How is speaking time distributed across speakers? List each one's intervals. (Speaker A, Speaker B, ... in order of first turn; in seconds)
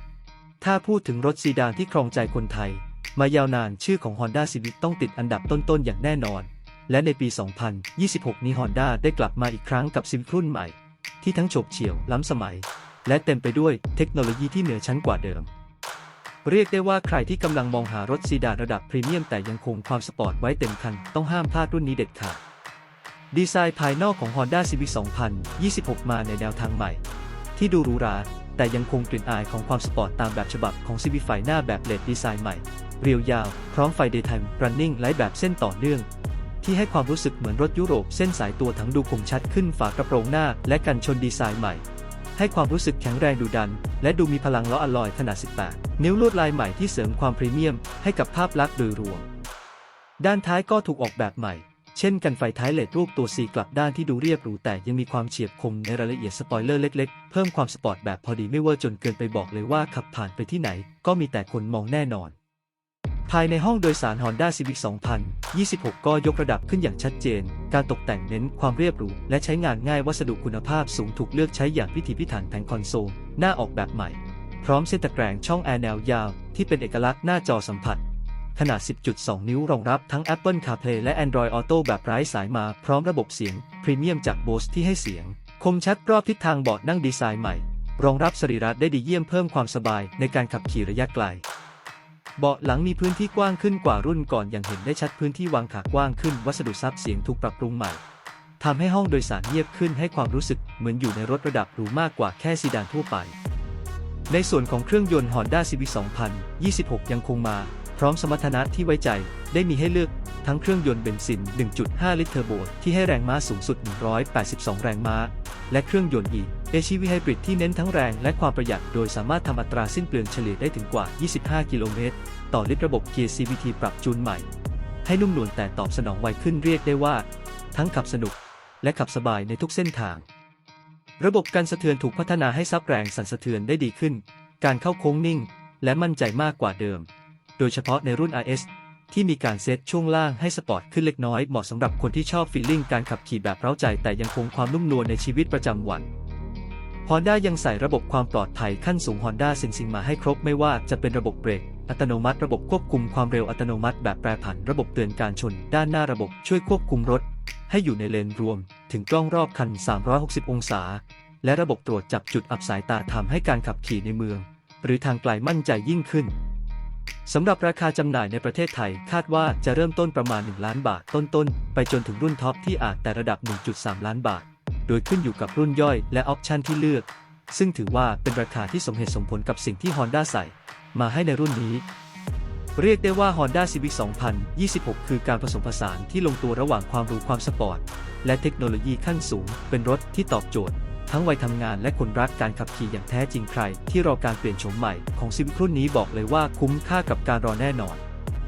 Speaker A: 0.6-15.5, 16.4-22.4, 23.3-27.0, 27.5-36.1, 36.6-41.8, 42.4-49.3, 50.2-62.3, 63.3-78.0, 78.5-91.4, 92.4-98.0, 98.6-103.3, 104.3-124.5, 125.0-130.2, 131.2-137.1, 137.6-146.1, 147.1-166.3, 167.2-181.8, 182.8-198.0